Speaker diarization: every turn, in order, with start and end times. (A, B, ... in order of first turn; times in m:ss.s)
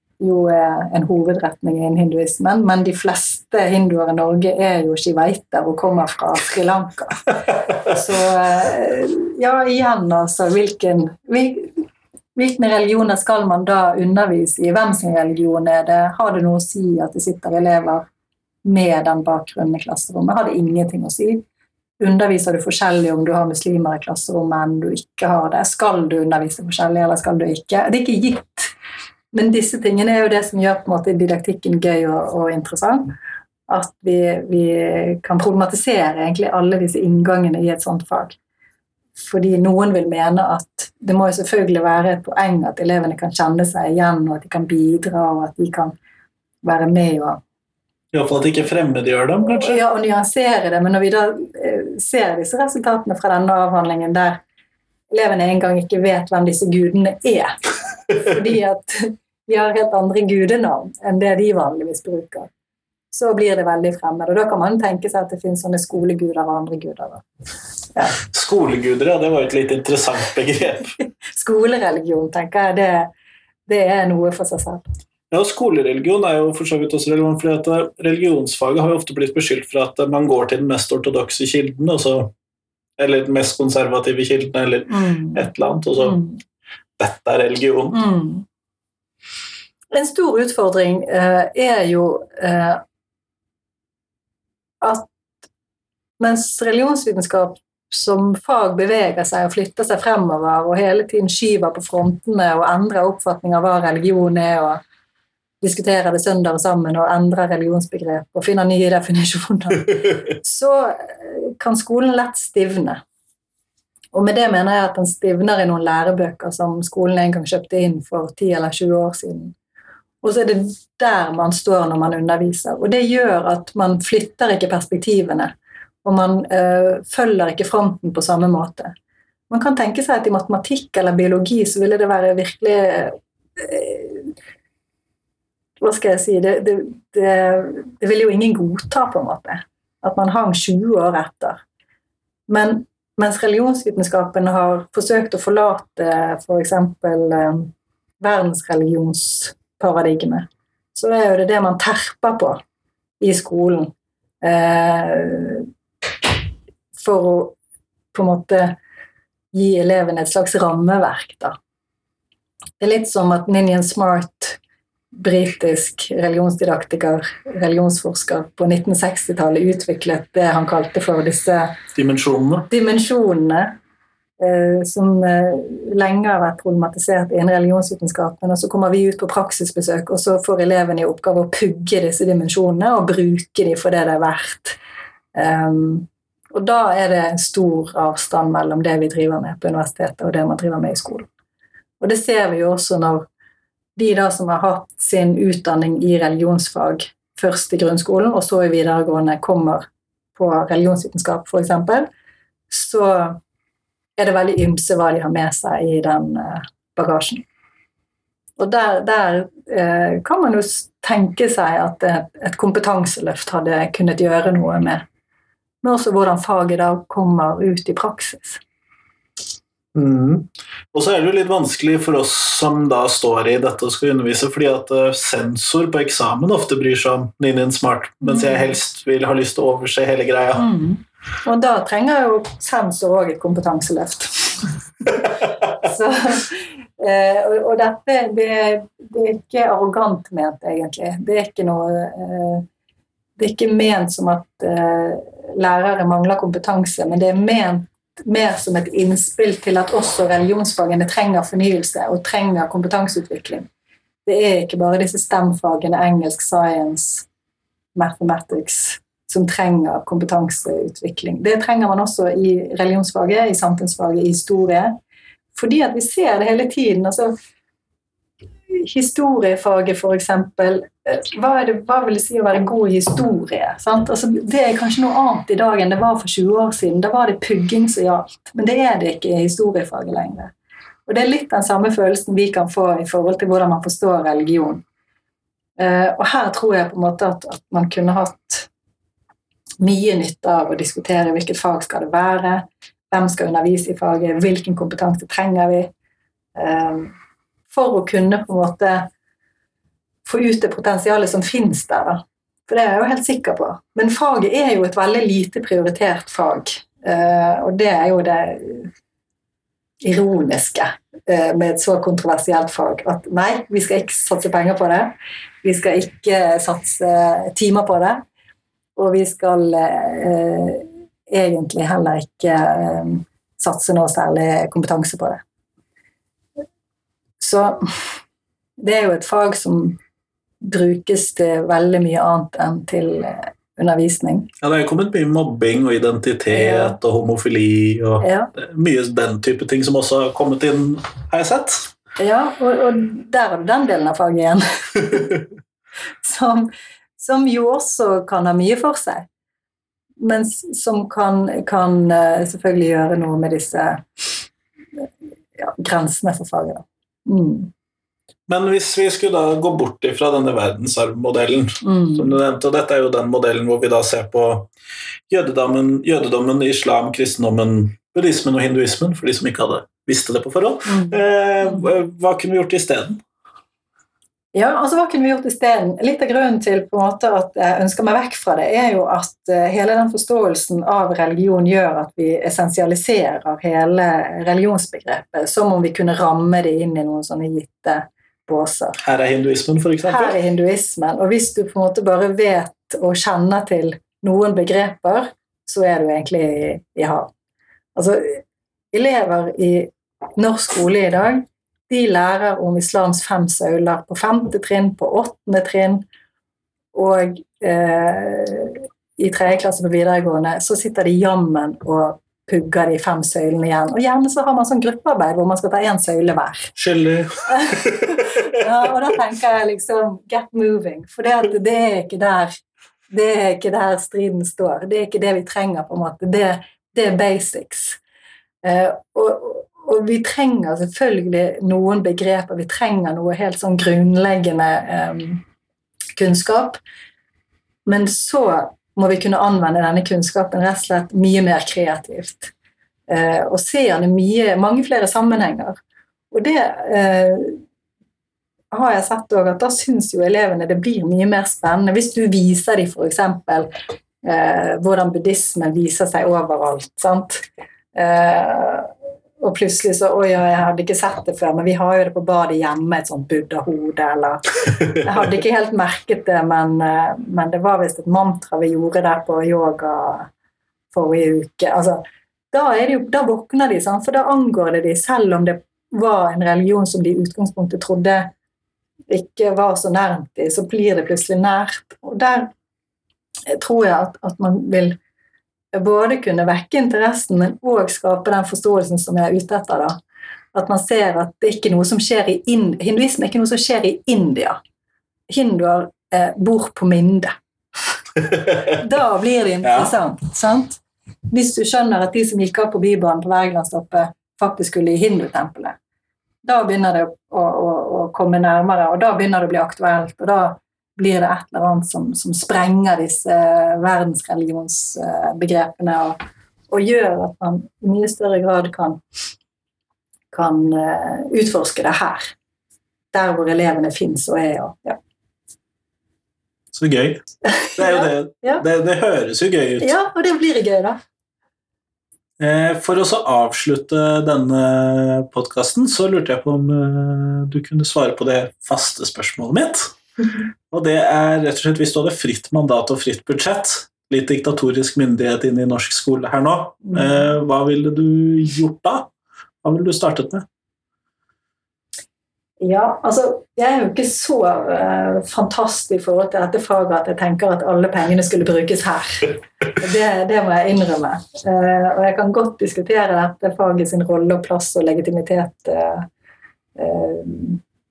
0:00.2-0:11.8 A
0:12.4-0:18.0 A
0:18.6-0:21.4 A
0:22.0-0:28.7 A
0:29.3-0:33.1 A
0:33.7-0:38.4 A
0:39.2-0:45.9 A
0:46.6-0:47.4 A
0:48.1-0:49.8 B
0:49.6-0:54.4 A
0:55.1-0:57.6 A
0:58.1-1:02.5 A
1:03.1-1:07.2 A
1:08.2-1:10.9 B
1:11.4-1:13.1 A
1:13.7-1:14.8 A
1:15.3-1:22.3 B
1:23.0-1:26.2 B
1:24.9-1:26.4 A
1:27.0-1:28.0 B
1:27.9-1:28.4 A
1:29.9-1:32.8 A
1:34.8-1:35.1 A
1:36.2-1:44.8 A
1:45.6-1:53.0 A
1:54.1-1:59.6 A
2:00.2-2:05.5 A
2:06.0-2:08.9 A
2:09.5-2:14.3 A
2:15.8-2:21.6 A
2:22.5-2:32.6 A
2:33.2-2:35.7 A
2:37.0-2:37.6 A
2:38.1-2:38.8 A
2:39.5-2:41.6 A
2:42.8-2:44.6 A
2:45.1-2:51.8 A
2:52.0-2:52.7 B
2:52.7-2:53.8 A
2:54.4-3:04.8 A
3:05.4-3:11.3 A
3:12.0-3:13.3 A
3:14.0-3:19.8 A
3:20.4-3:22.1 A
3:22.7-3:23.4 A
3:24.2-3:27.4 A
3:28.6-3:35.0 A
3:35.8-3:38.6 A
3:40.0-3:50.7 B
3:48.2-3:48.8 A
3:50.6-4:02.7 A
4:03.4-4:13.7 A
4:14.2-4:17.3 A
4:18.0-4:25.0 A
4:25.6-4:27.3 A
4:28.7-4:40.5 A
4:41.1-4:44.8 A
4:45.8-4:48.7 A
4:49.8-4:55.9 A
4:56.6-4:57.1 A
4:57.7-4:59.1 A
5:00.2-5:08.9 A
5:10.0-5:18.2 A
5:19.0-5:25.4 A
5:27.4-5:28.0 A
5:28.8-5:30.0 A
5:30.6-5:34.5 A
5:34.6-5:41.9 B
5:36.5-5:37.0 A
5:38.2-5:38.5 A
5:42.2-5:45.3 A
5:46.2-5:49.3 A
5:50.2-5:54.0 A
5:55.6-5:57.7 A
5:58.5-6:04.7 B
6:01.8-6:02.4 A
6:05.3-6:13.2 B
6:10.9-6:11.9 A
6:14.5-6:29.0 A
6:29.0-6:30.4 B
6:30.0-6:37.3 A
6:38.0-6:38.4 A
6:38.9-6:46.0 A
6:46.9-6:56.7 A
6:56.8-6:58.5 B
6:57.5-7:02.6 A
7:03.1-7:08.0 A
7:08.6-7:15.4 A
7:16.2-7:16.8 A
7:17.9-7:22.5 A
7:23.1-7:25.8 A
7:26.3-7:27.6 A
7:28.7-7:33.7 A
7:34.2-7:37.4 A
7:38.0-7:50.3 A
7:50.9-7:52.0 A
7:52.5-7:58.3 A
7:59.1-8:02.5 A
8:03.5-8:05.0 A
8:05.7-8:10.0 A
8:10.5-8:14.6 A
8:15.3-8:17.4 A
8:18.3-8:18.7 B
8:18.7-8:25.8 A
8:19.6-8:19.9 B
8:26.4-8:36.2 A
8:36.7-8:39.0 A
8:40.3-8:42.3 A
8:43.1-8:45.0 A
8:46.7-8:47.2 B
8:47.5-8:48.6 A
8:47.8-8:50.0 B
8:49.8-8:51.0 A
8:52.4-8:59.9 B
9:00.7-9:09.1 B
9:09.6-9:10.4 B
9:12.6-9:26.1 A
9:26.8-9:27.6 A